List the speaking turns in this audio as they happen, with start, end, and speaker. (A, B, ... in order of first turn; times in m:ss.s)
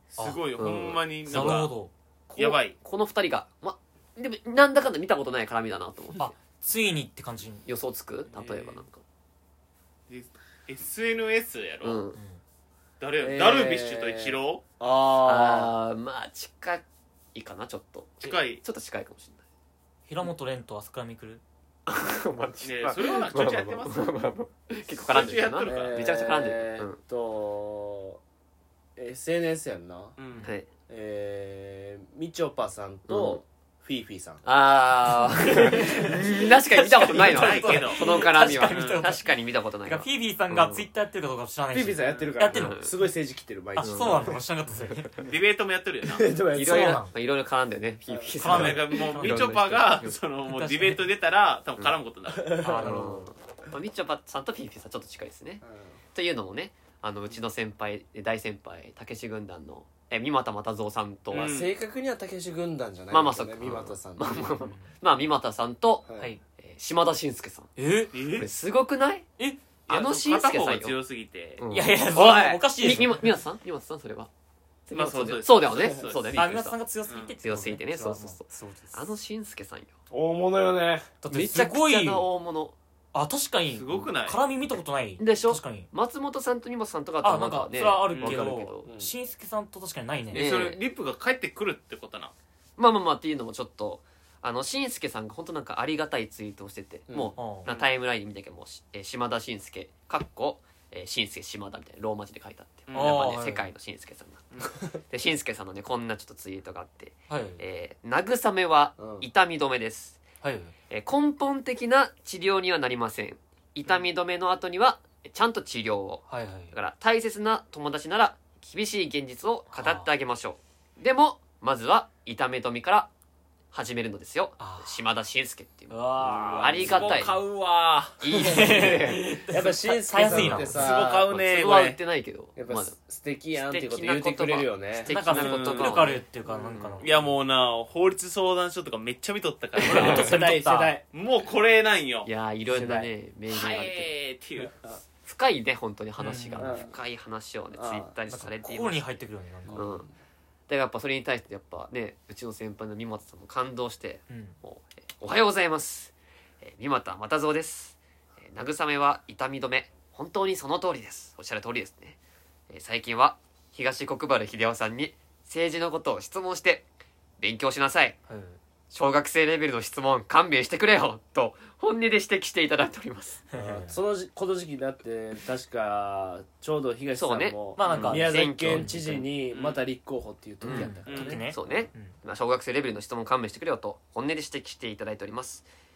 0:00.1-0:01.7 A
0:00.2-0:00.4 B
0:00.6-0:01.7 C
0:01.3-0:02.5 B
0:02.4-0:02.8 A
0:02.4-0:06.3 C
0:06.2-0:07.6 B
0:07.7-0:09.0 C
0:08.3-0:08.8 A
0:10.1-0:12.0 A
0:11.8-0:12.2 C
0:12.2-0:12.4 B
0:13.0-0:14.6 A
0:13.2-0:15.7 D
0:15.2-0:19.4 C
0:18.2-0:18.6 A
0:20.1-0:21.4 B
0:21.9-0:27.0 C
0:22.6-0:24.1 A
0:25.0-0:26.5 A
0:25.2-0:28.2 D
0:29.0-0:30.2 D
0:30.2-0:30.5 A
0:30.4-0:30.7 C
0:30.9-0:34.4 D
0:33.1-0:33.4 C
0:34.4-0:40.9 C
0:35.7-0:36.2 B
0:36.7-0:42.8 B
0:37.3-0:39.1 A
0:41.7-0:44.4 D
0:42.0-0:42.3 A
0:42.5-0:43.0 C
0:43.8-0:45.2 B
0:43.8-0:44.4 C
0:45.2-0:46.3 A
0:46.1-0:47.0 D
0:46.5-0:47.1 B
0:46.6-0:50.3 C
0:48.4-0:49.5 B
0:48.5-0:52.6 A
0:50.5-0:51.0 B
0:52.4-0:53.2 D
0:52.6-0:53.2 B
0:52.6-1:01.6 C
0:55.6-0:55.9 D
1:01.3-1:04.6 D
1:01.4-1:01.7 A
1:03.1-1:07.7 C
1:04.6-1:04.9 B
1:06.1-1:06.3 D
1:07.8-1:08.2 B
1:08.1-1:08.5 A
1:08.3-1:09.3 C
1:09.9-1:11.6 A
1:09.9-1:11.0 C
1:11.6-1:14.3 C
1:11.7-1:13.4 B
1:14.9-1:16.8 C
1:14.9-1:16.4 A
1:16.3-1:19.1 B
1:17.1-1:17.3 A
1:17.4-1:19.9 C
1:20.1-1:21.1 D
1:21.2-1:22.3 B
1:21.3-1:22.8 C
1:23.1-1:25.9 B
1:23.7-1:24.4 A
1:25.2-1:28.9 C
1:27.2-1:30.5 B
1:28.1-1:28.5 A
1:28.8-1:29.1 D
1:30.3-1:32.3 A
1:30.3-1:30.8 C
1:32.8-1:50.2 C
1:37.1-1:37.4 D
1:37.4-1:37.7 B
1:42.9-1:43.2 A
1:42.9-1:43.7 B
1:47.3-1:47.6 B
1:49.0-1:49.3 D
1:50.4-1:50.7 B
1:50.9-2:03.1 C
1:56.3-1:56.7 B
1:59.7-2:00.1 B
2:03.7-2:06.0 C
2:04.6-2:05.0 B
2:05.9-2:11.4 D
2:06.2-2:07.4 A
2:06.6-2:07.4 C
2:08.2-2:09.3 C
2:08.5-2:10.9 B
2:10.4-2:12.0 A
2:10.4-2:13.0 C
2:12.6-2:15.1 D
2:13.5-2:17.1 C
2:15.1-2:17.3 B
2:15.3-2:16.2 A
2:17.0-2:20.4 A
2:19.8-2:21.0 B
2:19.8-2:21.0 D
2:21.1-2:22.3 A
2:22.2-2:24.1 C
2:22.7-2:23.1 D
2:23.5-2:24.8 A
2:24.6-2:25.0 D
2:25.2-2:29.1 C
2:26.2-2:26.8 B
2:26.6-2:26.9 D
2:27.7-2:28.2 D
2:28.3-2:29.9 B
2:29.7-2:30.1 D
2:29.8-2:30.1 C
2:30.7-2:42.2 C
2:34.3-2:34.6 B
2:42.7-2:46.9 C
2:47.4-2:48.2 C
2:48.3-2:48.6 B
2:48.9-2:53.4 C
2:53.5-2:54.0 B
2:53.5-3:01.5 D
2:57.2-2:59.3 C
2:57.8-2:59.0 B
2:57.9-2:58.1 A
2:59.5-2:59.8 A
3:00.6-3:05.7 C
3:00.7-3:02.1 B
3:01.1-3:01.4 A